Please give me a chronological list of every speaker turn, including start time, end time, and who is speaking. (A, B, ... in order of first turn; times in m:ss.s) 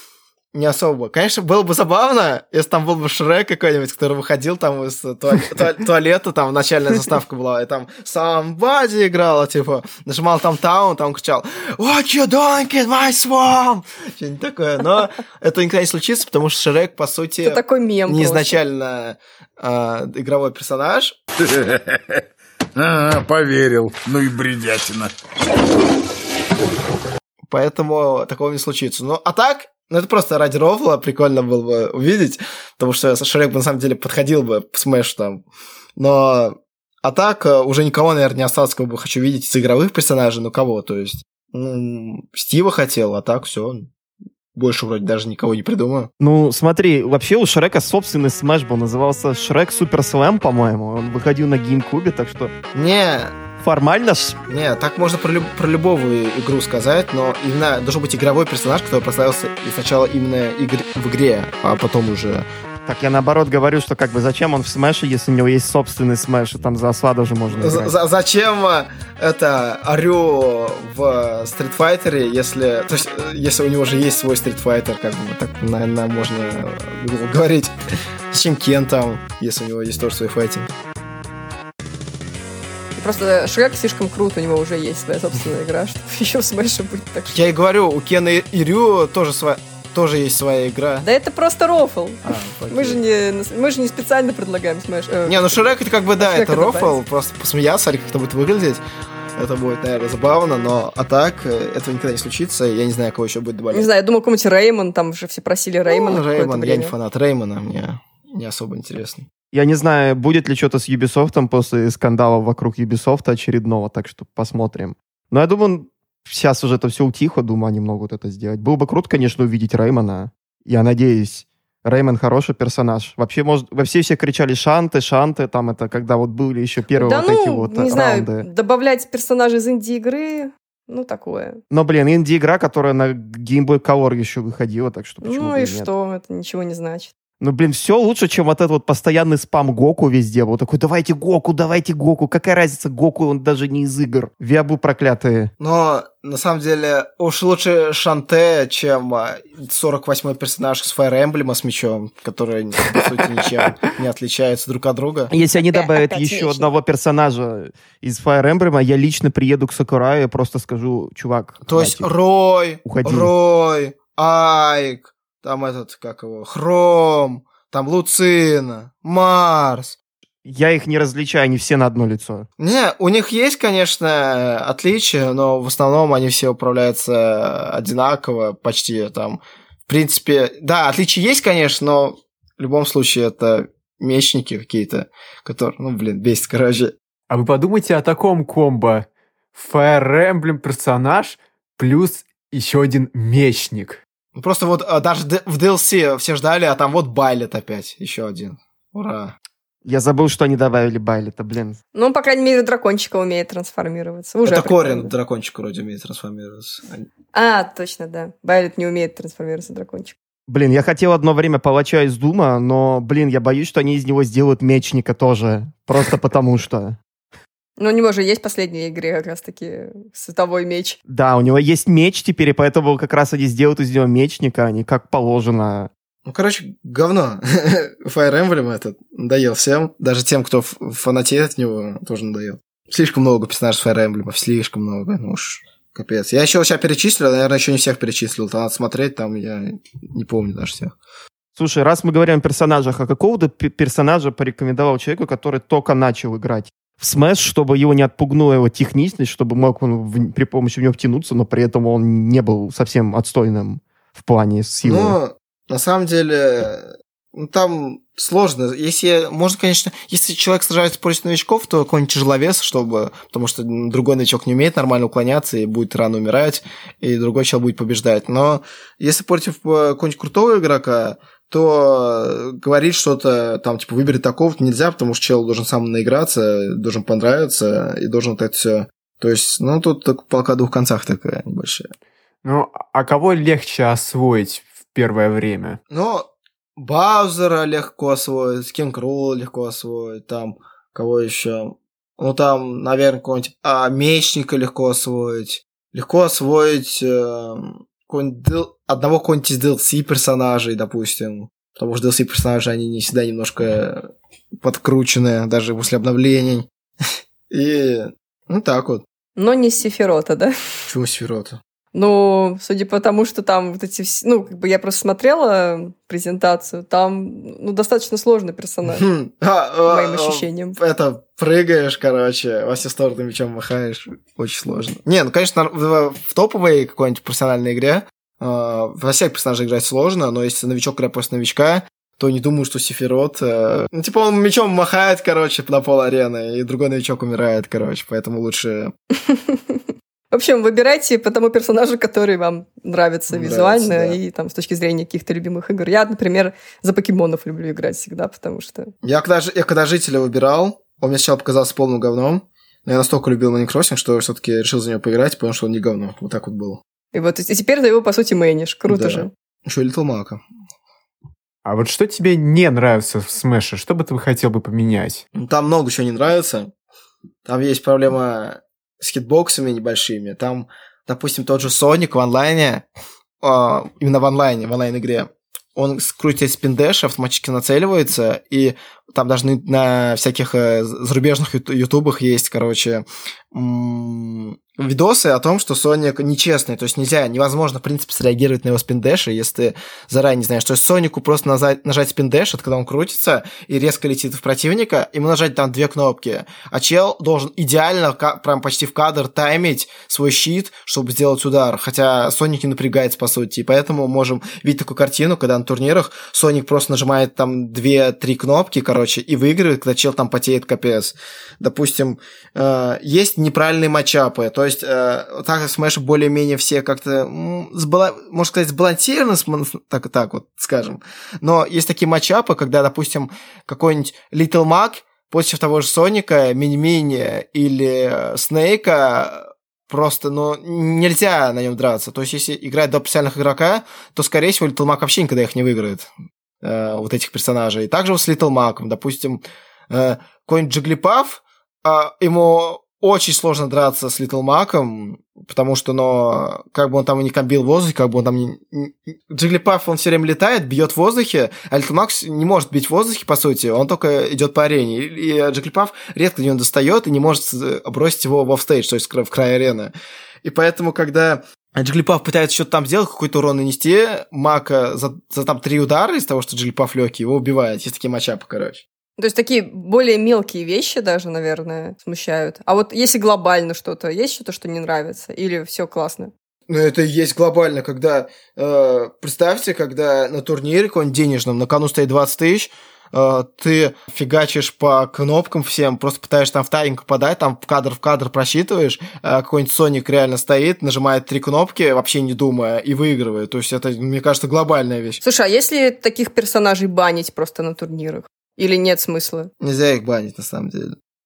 0:00.5-0:21.2 A
0:17.4-0:18.6 B
0:21.4-0:21.7 C
0:22.8-0:25.1 C
0:27.5-0:35.4 A
0:36.0-0:43.9 A
0:44.5-0:46.1 A
0:46.2-0:52.5 D
0:52.7-0:53.4 A
0:53.6-0:54.4 D
0:54.5-1:02.5 A
1:02.8-1:07.9 D
1:07.5-1:17.7 A
1:18.3-1:20.7 A
1:23.0-1:27.4 B
1:27.3-1:31.0 A
1:31.0-1:35.6 B
1:32.2-1:33.0 A
1:35.2-1:38.8 A
1:36.2-1:37.0 B
1:39.4-1:43.9 A
1:43.7-1:46.9 B
1:45.9-1:49.3 A
1:49.5-2:08.5 D
2:07.0-2:11.6 B
2:11.7-2:15.9 D
2:15.2-2:17.1 B
2:17.4-2:25.5 D
2:25.6-2:35.3 A
2:35.3-2:42.1 D
2:35.7-2:36.7 B
2:41.7-2:50.0 A
2:42.8-2:43.3 D
2:50.4-2:52.5 D
2:52.6-3:06.9 A
3:07.3-3:14.0 E
3:14.4-3:19.3 A
3:19.8-3:21.8 D
3:21.9-3:25.1 B
3:24.4-3:27.0 A
3:27.3-3:30.1 B
3:30.5-3:37.0 D
3:37.8-3:41.0 B
3:41.1-3:45.9 D
3:46.2-4:00.9 A
4:01.6-4:15.2 D
4:14.8-4:41.9 A
4:42.4-4:45.8 E
4:45.9-5:04.1 A
5:04.6-5:06.7 A
5:07.5-5:09.0 A
5:09.4-5:10.5 B
5:10.9-5:11.6 A
5:11.9-5:19.0 B
5:18.9-5:38.9 A
5:19.9-5:20.8 B
5:39.2-5:48.9 B
5:43.3-5:44.2 A
5:49.0-5:56.8 A
5:57.1-5:59.3 B
5:58.9-6:00.4 A
6:01.6-6:05.2 E
6:05.3-6:06.7 A
6:07.4-6:12.8 A
6:13.4-7:48.8 A
7:49.2-7:56.3 B
7:56.7-8:15.2 A
8:15.2-8:19.5 B
8:19.6-8:21.0 A